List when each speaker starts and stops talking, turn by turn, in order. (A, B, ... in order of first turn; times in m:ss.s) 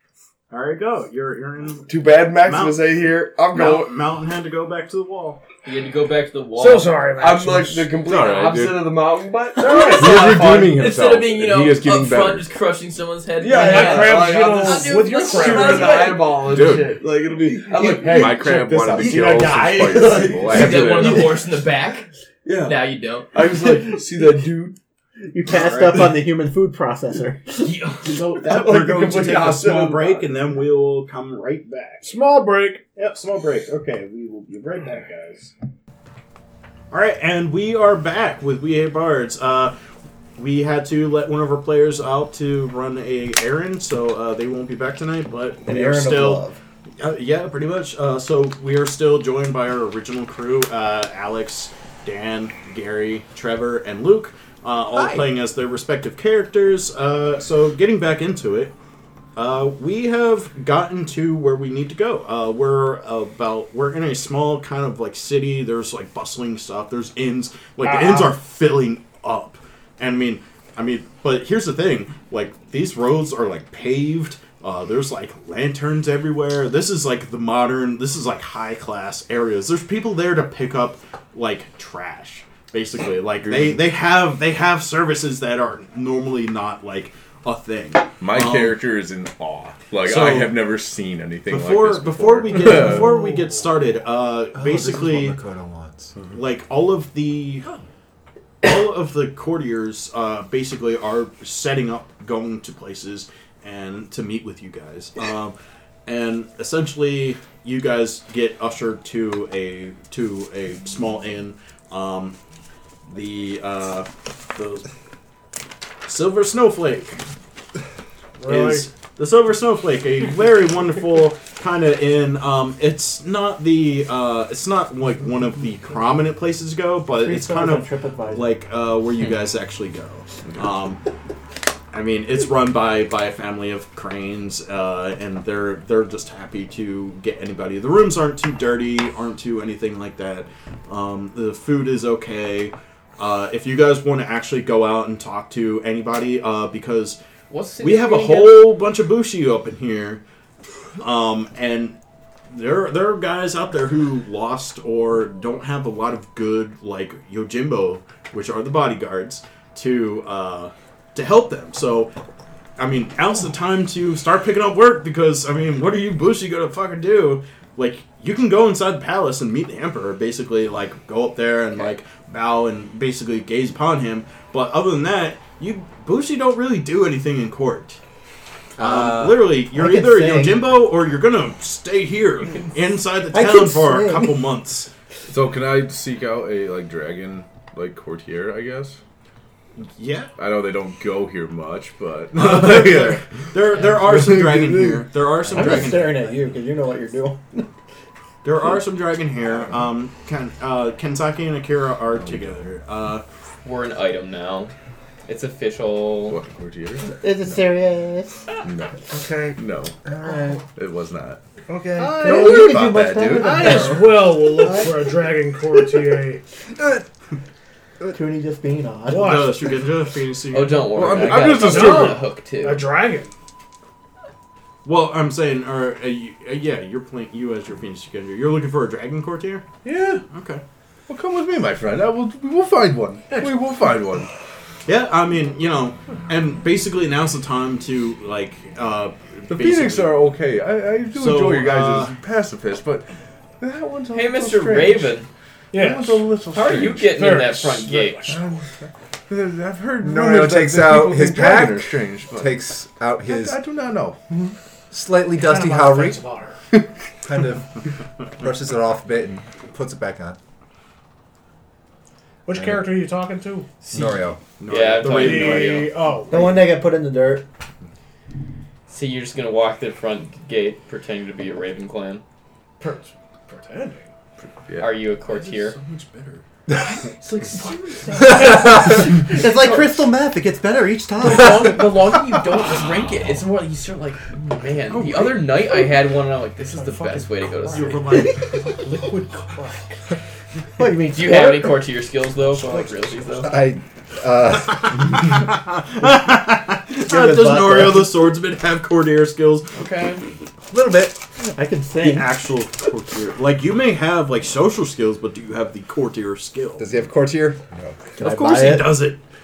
0:00.5-0:02.8 A
0:01.9-0:03.9 B
0:03.5-0:05.4 A
0:05.6-0:07.2 C
0:06.6-0:10.7 B
0:06.6-0:08.0 D
0:08.0-0:09.0 E
0:09.6-0:16.4 C
0:09.7-0:10.2 D
0:09.8-0:12.5 E
0:13.4-0:21.4 B
0:13.5-0:16.1 D
0:16.4-0:17.0 E
0:18.0-0:21.4 E
0:19.0-0:20.3 F
0:19.7-0:22.1 C
0:22.4-0:22.8 B
0:22.6-0:23.5 C
0:23.3-0:24.8 B
0:25.3-0:27.5 F
0:25.5-0:26.1 A
0:27.9-0:32.0 A
0:28.4-0:30.0 D
0:28.9-0:30.1 B
0:32.0-0:32.8 D
0:33.0-0:35.5 A
0:36.9-0:39.7 A
0:40.4-0:46.4 A
0:45.6-0:46.6 F
0:47.0-0:58.7 A
0:54.9-0:55.3 G
0:59.4-1:28.8 A
1:07.8-1:08.4 D
1:28.2-1:33.1 E
1:30.0-1:30.6 A
1:31.5-1:35.4 A
1:34.5-1:36.2 G
1:36.3-1:37.7 A
1:38.6-1:52.4 A
1:53.1-1:54.9 A
1:56.1-1:57.2 A
1:58.4-1:58.9 D
1:58.4-2:11.0 A
2:07.2-2:08.5 F
2:11.9-2:27.2 A
2:27.5-2:28.7 C
2:27.8-2:30.2 A
2:31.0-2:32.0 A
2:32.5-2:42.1 A
2:42.8-2:58.0 A
2:58.8-2:59.5 G
2:58.8-3:04.9 A
2:59.7-3:00.7 F
3:03.3-3:04.4 F
3:05.3-3:09.0 E
3:09.8-3:10.3 A
3:10.4-3:13.4 E
3:12.4-3:16.2 A
3:14.0-3:15.0 E
3:15.5-3:17.7 F
3:18.4-3:23.2 A
3:22.1-3:22.6 G
3:23.6-3:24.7 C
3:25.3-3:26.4 C
3:26.3-3:27.6 E
3:27.1-3:28.4 F
3:28.6-3:30.0 E
3:29.1-3:29.4 F
3:30.0-3:30.6 G
3:30.8-3:31.4 E
3:31.7-3:34.9 F
3:32.0-3:32.8 D
3:32.2-3:34.0 E
3:33.4-3:36.4 D
3:38.1-3:39.4 F
3:39.1-3:39.8 D
3:39.1-3:41.4 A
3:40.5-3:42.9 C
3:40.9-3:42.2 E
3:41.5-3:43.3 D
3:44.8-3:49.7 A
3:49.8-3:50.2 D
3:50.3-3:50.6 A
3:51.1-3:54.3 E
3:53.3-3:53.6 D
3:54.9-4:00.1 A
3:59.5-4:05.2 E
4:01.2-4:02.2 A
4:04.1-4:05.3 C
4:05.7-4:06.4 D
4:05.7-4:07.1 E
4:06.5-4:08.3 C
4:07.1-4:08.4 D
4:08.3-4:08.7 E
4:09.3-4:12.6 E
4:10.0-4:13.6 G
4:13.2-4:14.2 E
4:14.9-4:16.2 G
4:15.3-4:16.6 D
4:17.2-4:17.7 G
4:18.4-4:20.4 G
4:22.5-4:23.8 D
4:22.5-4:22.9 G
4:23.8-4:25.9 C
4:23.9-4:24.4 G
4:24.6-4:25.9 A
4:25.1-4:26.7 D
4:26.3-4:27.4 F
4:28.9-4:32.2 C
4:32.8-4:34.0 D
4:34.6-4:35.0 E
4:34.8-4:35.8 C
4:35.3-4:36.4 A
4:36.8-4:38.8 C
4:37.3-4:39.2 D
4:38.4-4:39.0 G
4:38.4-4:41.8 F
4:41.2-4:49.1 C
4:44.9-4:45.7 A
4:46.7-4:49.9 D
4:50.8-4:51.8 F
4:51.1-4:53.5 C
4:53.4-4:55.5 G
4:56.0-4:59.8 A
4:57.0-4:58.1 F
4:59.7-5:00.2 C
5:00.7-5:02.4 F
5:02.0-5:06.9 A
5:06.8-5:08.0 G
5:08.2-5:09.2 A
5:08.2-5:09.0 F